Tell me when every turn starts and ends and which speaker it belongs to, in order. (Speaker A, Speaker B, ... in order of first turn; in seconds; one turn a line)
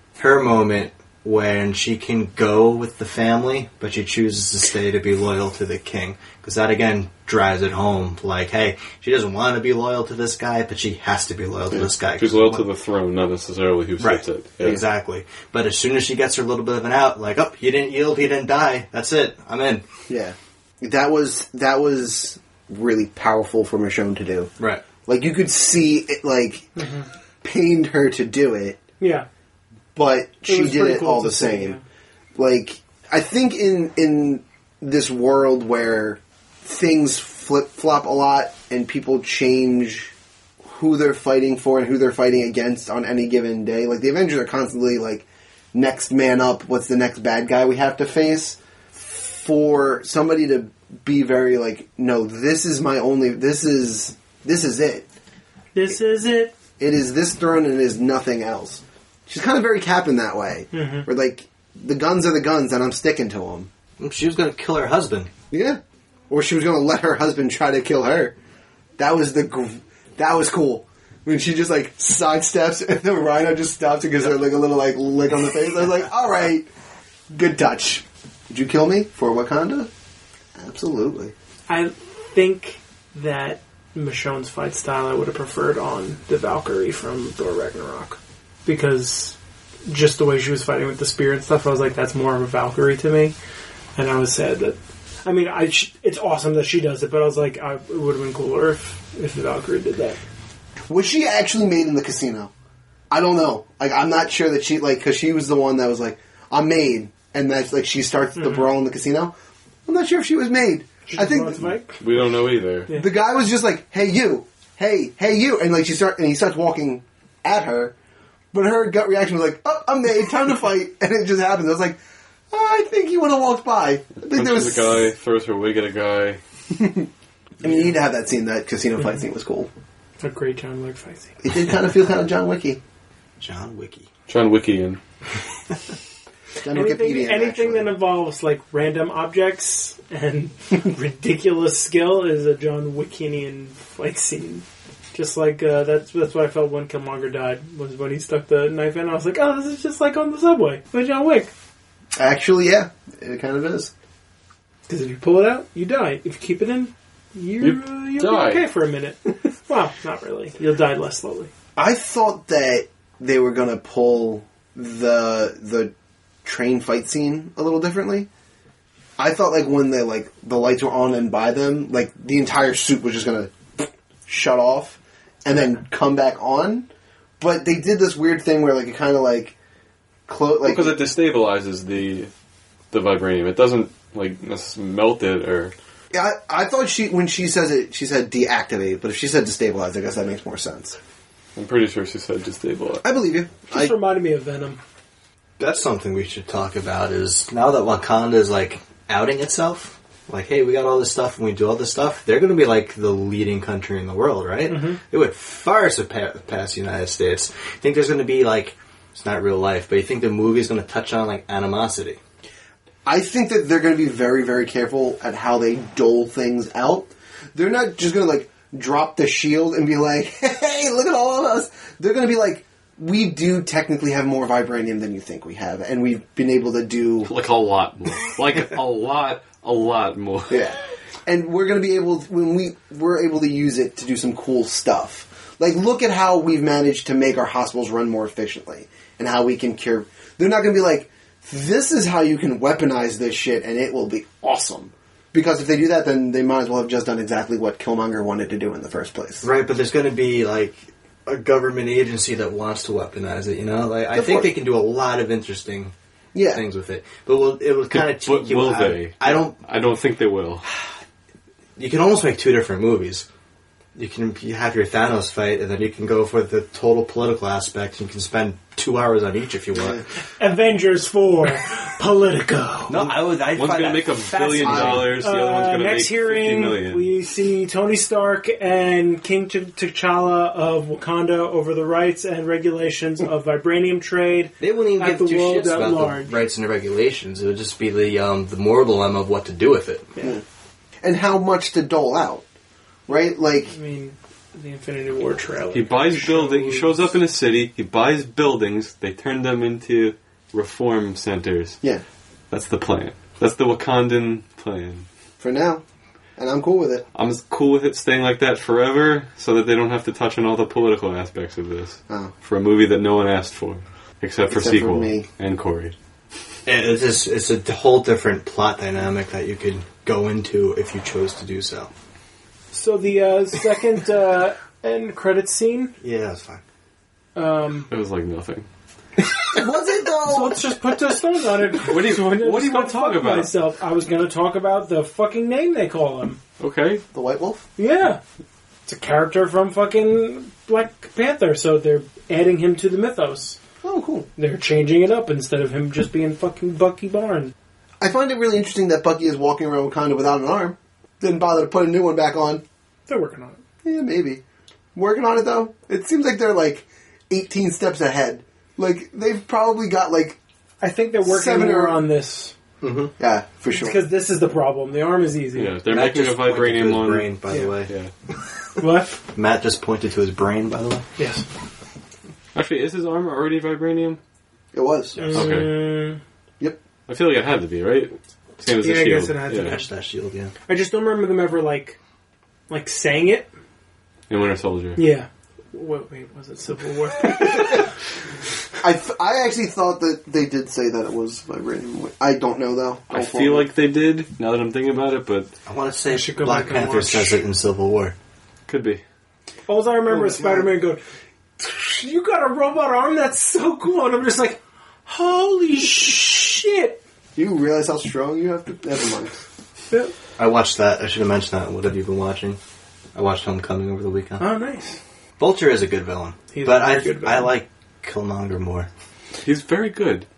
Speaker A: 0.2-12.7
Speaker B: 11.8-14.8
Speaker A: 14.0-19.9
Speaker C: 20.1-24.5
Speaker A: 24.6-24.8
Speaker C: 25.1-26.7
Speaker D: 26.8-27.1
Speaker C: 27.4-28.8
Speaker D: 29.0-29.3
Speaker C: 29.9-31.8
Speaker D: 30.5-31.8
Speaker C: 32.4-40.1
Speaker C: 40.6-55.1
Speaker D: 55.8-56.5
Speaker C: 56.8-63.7
Speaker D: 60.7-61.1
Speaker A: 64.0-65.3
Speaker C: 65.5-65.8
Speaker C: 66.3-68.3
Speaker C: 69.0-76.7
Speaker C: 77.3-79.9
Speaker C: 80.6-81.3
Speaker D: 81.7-93.3
Speaker D: 94.0-100.2
Speaker C: 100.9-102.5
Speaker C: 103.1-109.3
Speaker D: 108.4-108.6
Speaker C: 109.9-111.7
Speaker D: 111.1-112.0
Speaker B: 112.0-112.9
Speaker C: 112.9-117.9
Speaker C: 118.5-122.0
Speaker C: 122.5-125.0
Speaker B: 124.3-126.4
Speaker C: 126.7-127.1
Speaker C: 127.6-129.7
Speaker D: 130.2-131.4
Speaker C: 131.4-132.8
Speaker A: 133.4-134.1
Speaker B: 134.3-135.0
Speaker C: 136.6-137.9
Speaker D: 136.7-151.5
Speaker C: 152.2-153.9
Speaker D: 154.9-161.5
Speaker B: 157.6-158.7
Speaker C: 161.8-165.9
Speaker C: 166.4-168.3
Speaker C: 169.2-176.9
Speaker C: 177.4-179.6
Speaker C: 180.3-181.0
Speaker B: 180.6-182.3
Speaker B: 182.9-185.7
Speaker C: 186.1-191.0
Speaker B: 191.6-193.1
Speaker C: 193.0-193.9
Speaker D: 193.7-194.8
Speaker A: 195.6-212.2
Speaker D: 204.7-205.0
Speaker C: 213.1-227.3
Speaker B: 227.2-230.7
Speaker C: 230.5-249.4
Speaker A: 249.4-255.9
Speaker C: 254.1-254.5
Speaker C: 256.3-256.6
Speaker A: 256.5-259.6
Speaker B: 257.9-260.6
Speaker A: 261.8-263.3
Speaker A: 263.9-270.0
Speaker C: 269.8-270.0
Speaker D: 270.4-273.1
Speaker A: 272.9-275.2
Speaker B: 273.5-277.1
Speaker C: 274.6-275.1
Speaker D: 275.0-286.4
Speaker A: 284.6-290.1
Speaker C: 291.0-292.4
Speaker C: 293.1-293.7
Speaker D: 293.7-297.1
Speaker B: 295.7-301.8
Speaker B: 302.5-305.1
Speaker C: 305.4-305.8
Speaker C: 306.4-307.0
Speaker B: 307.1-315.9
Speaker C: 314.5-315.3
Speaker A: 316.7-321.9
Speaker D: 322.7-325.9
Speaker A: 326.0-326.6
Speaker D: 327.4-327.9
Speaker B: 327.9-328.7
Speaker C: 329.5-330.6
Speaker D: 330.2-336.4
Speaker B: 331.8-333.5
Speaker B: 336.6-337.0
Speaker C: 337.1-337.6
Speaker D: 337.8-338.2
Speaker D: 338.9-343.6
Speaker C: 343.8-344.3
Speaker D: 344.4-347.5
Speaker C: 348.0-352.6
Speaker D: 353.1-353.6
Speaker C: 353.9-354.4
Speaker C: 354.9-360.4
Speaker D: 360.8-362.5
Speaker C: 361.2-362.0
Speaker A: 362.8-363.1
Speaker C: 363.2-364.0
Speaker D: 363.7-365.8
Speaker B: 365.6-368.1
Speaker A: 365.9-367.9
Speaker D: 367.5-367.8
Speaker D: 368.8-369.2
Speaker A: 369.3-371.0
Speaker D: 371.2-371.4
Speaker B: 372.5-374.2
Speaker C: 374.7-375.5
Speaker D: 375.2-376.2
Speaker B: 375.3-376.1
Speaker B: 377.1-379.8
Speaker D: 378.7-379.9
Speaker A: 379.6-380.5
Speaker D: 380.7-382.0
Speaker D: 382.7-383.5
Speaker B: 384.3-385.0
Speaker D: 385.0-387.9
Speaker C: 388.8-393.7
Speaker B: 393.1-395.5
Speaker A: 395.7-398.1
Speaker D: 396.1-397.4
Speaker B: 398.7-399.0
Speaker D: 399.7-401.0
Speaker C: 400.1-400.7
Speaker D: 401.6-407.0
Speaker C: 407.4-409.4
Speaker A: 410.4-412.6
Speaker A: 413.1-414.4
Speaker D: 414.4-415.0
Speaker A: 415.4-418.9
Speaker D: 416.5-417.5
Speaker B: 419.4-420.3